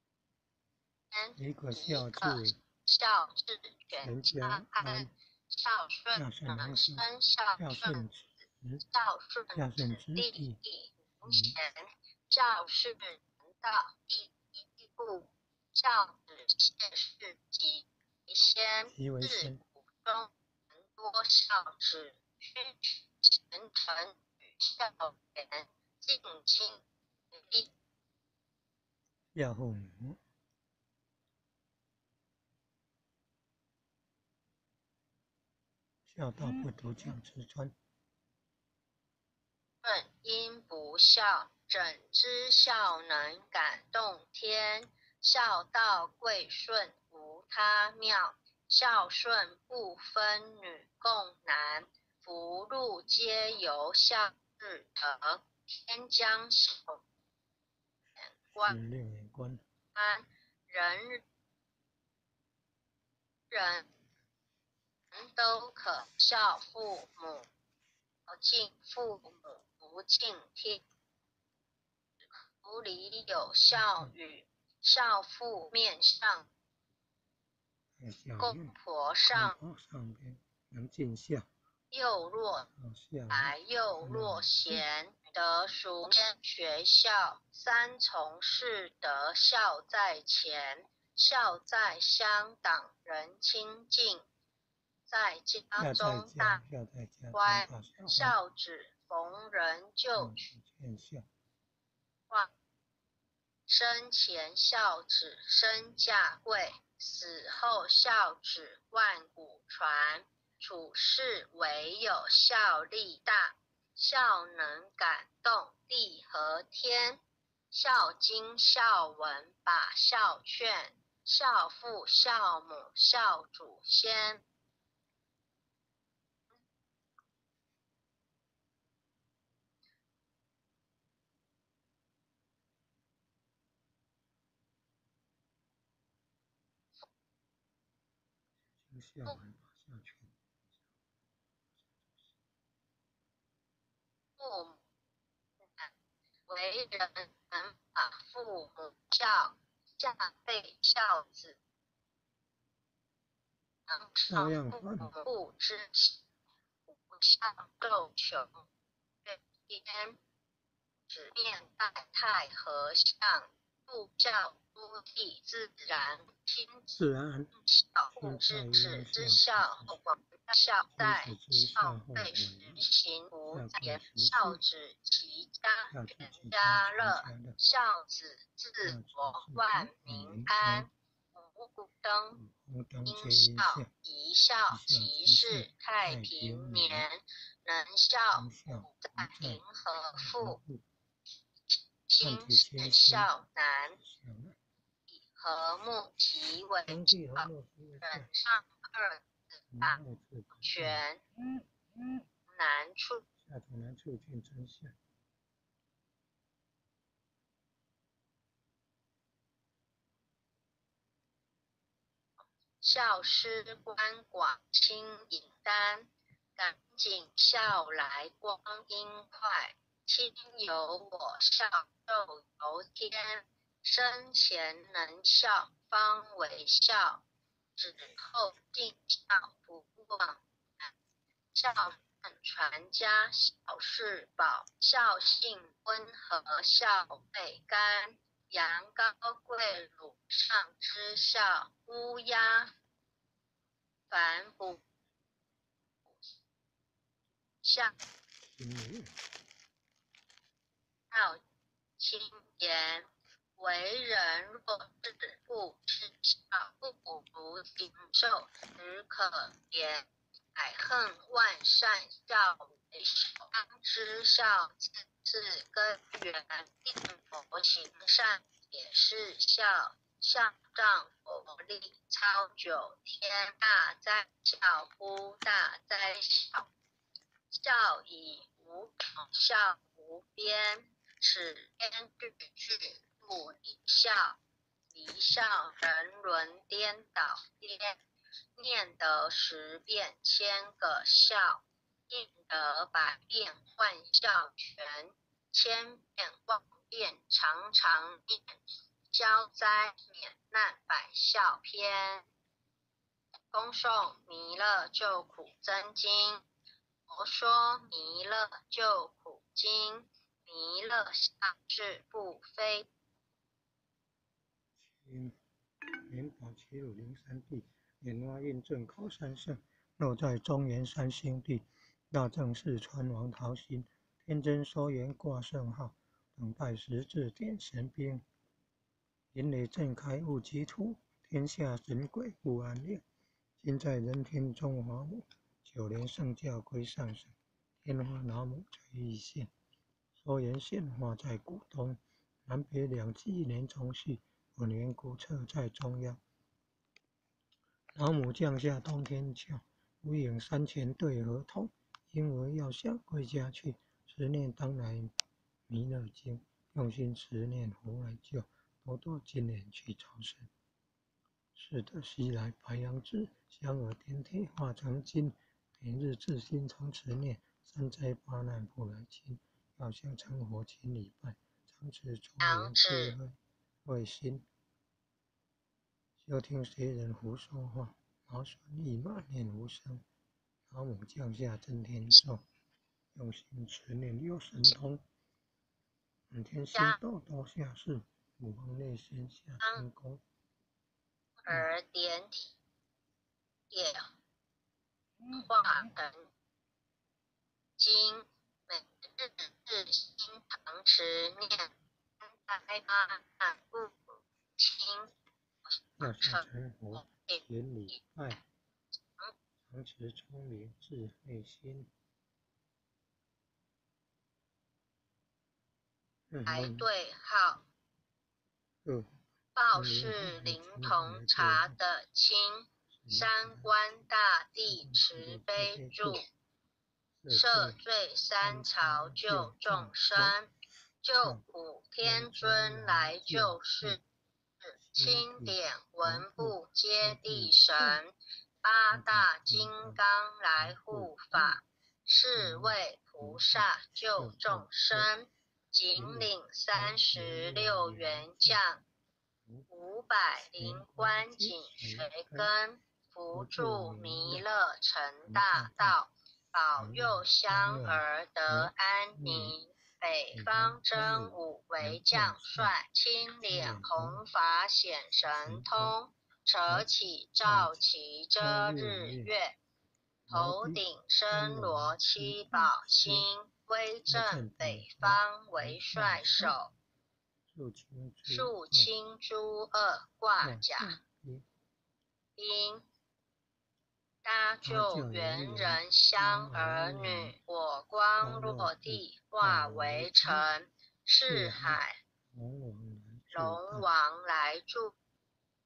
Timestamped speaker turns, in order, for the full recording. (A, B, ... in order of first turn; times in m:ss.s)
0:01.1-0:08.1 A
0:01.4-0:02.6 B
0:04.0-0:05.1 B
0:06.1-0:08.8 B
0:08.8-0:27.7 A
0:09.5-0:10.6 B
0:11.2-0:11.6 B
0:18.9-0:19.6 B
0:29.4-0:30.2 B
0:36.1-0:37.8 B
0:39.8-0:57.0 A
0:58.2-0:58.8 A
0:58.6-0:59.6 B
1:00.0-1:01.2 A
1:03.5-1:03.9 A
1:05.1-1:07.5 A
1:08.3-1:10.8 A
1:12.6-1:16.5 A
1:13.7-1:14.1 B
1:18.0-1:18.8 B
1:18.4-1:19.6 A
1:19.3-1:21.5 B
1:21.9-1:22.7 A
1:22.8-1:24.8 B
1:23.3-1:34.3 A
1:35.1-1:36.6 A
1:35.8-1:38.4 B
1:37.3-1:40.4 A
1:40.2-1:41.3 B
1:43.7-2:04.4 A
2:18.8-2:20.3 B
2:21.8-2:22.3 B
2:24.4-2:24.8 A
2:25.7-2:25.9 A
2:26.5-2:31.6 A
2:33.9-2:36.2 A
2:34.3-2:35.1 B
2:36.9-2:38.6 A
2:39.2-2:40.2 A
2:41.1-2:47.0 A
2:46.9-2:47.5 B
2:47.6-3:02.4 A
2:48.2-2:50.0 B
2:50.9-2:52.8 B
2:53.5-2:54.6 B
2:55.9-2:57.6 B
2:58.8-3:00.9 B
3:02.4-3:03.9 B
3:03.1-3:10.6 A
3:04.7-3:07.1 B
3:08.3-3:10.8 B
3:12.1-3:14.0 A
3:12.2-3:13.3 B
3:14.0-3:14.6 B
3:15.1-3:17.5 A
3:16.9-3:18.3 B
3:18.0-3:20.0 A
3:19.7-3:21.0 B
3:20.6-3:21.2 A
3:22.5-3:23.2 A
3:23.4-3:25.0 B
3:32.8-3:47.2 A
3:47.8-3:50.9 A
3:51.5-4:02.7 A
4:04.1-4:04.8 A
4:07.6-4:07.9 A
4:08.5-4:09.1 B
4:11.1-4:11.4 A
4:12.0-4:36.7 A
4:37.5-4:44.4 A
4:44.9-4:48.0 A
4:48.6-4:58.6 A
4:59.1-5:02.2 A
5:03.5-5:06.4 A
5:07.1-5:12.9 A
5:14.8-5:15.4 B
5:16.0-5:28.2 B
5:29.3-5:33.0 B
5:33.6-5:39.5 B
5:40.2-5:46.2 B
5:48.0-5:55.1 B
5:55.7-6:00.5 B
6:01.6-6:14.5 B
6:12.4-6:13.2 A
6:16.2-6:20.0 B
6:20.7-6:22.4 B
6:23.1-6:25.0 B
6:26.3-6:30.2 B
6:26.7-6:27.0 A
6:29.6-6:29.9 A
6:31.4-6:32.6 A
6:33.7-6:34.1 A
6:35.3-6:36.3 A
6:37.8-6:41.7 A
6:42.2-6:45.1 A
6:46.0-6:46.4 A
6:46.0-6:48.4 B
6:47.0-6:48.0 A
6:49.7-6:51.9 B
6:56.3-6:56.9 B
6:56.5-6:57.7 A
6:58.8-6:59.1 B
6:59.6-7:06.2 A
6:59.7-7:01.8 B
7:02.9-7:03.7 B
7:04.6-7:06.2 B
7:07.2-7:07.8 B
7:07.3-7:10.5 A
7:08.4-7:10.4 B
7:11.0-7:14.0 A
7:11.2-7:11.4 B
7:12.0-7:14.0 B
7:14.6-7:18.1 A
7:14.9-7:18.0 B
7:18.6-7:28.8 A
7:18.9-7:20.0 B
7:20.6-7:21.6 B
7:22.4-7:25.1 B
7:25.9-7:28.6 B
7:29.7-7:49.6 A
7:30.6-7:32.5 B
7:33.3-7:34.5 B
7:35.2-7:36.0 B
7:36.8-7:39.6 B
7:40.3-7:42.7 B
7:43.4-7:44.2 B
7:45.3-7:46.0 B
7:47.4-7:47.8 B
7:48.4-7:49.3 B
7:50.3-7:53.3 B
7:50.3-7:56.7 A
7:54.1-7:56.6 B
7:57.5-7:58.9 B
7:58.3-8:01.0 A
8:00.4-8:01.4 B
8:02.4-8:02.8 A
8:04.2-8:12.0 A
8:04.6-8:07.4 B
8:08.2-8:10.5 B
8:11.2-8:11.8 B
8:12.3-8:13.9 B
8:13.3-8:14.9 A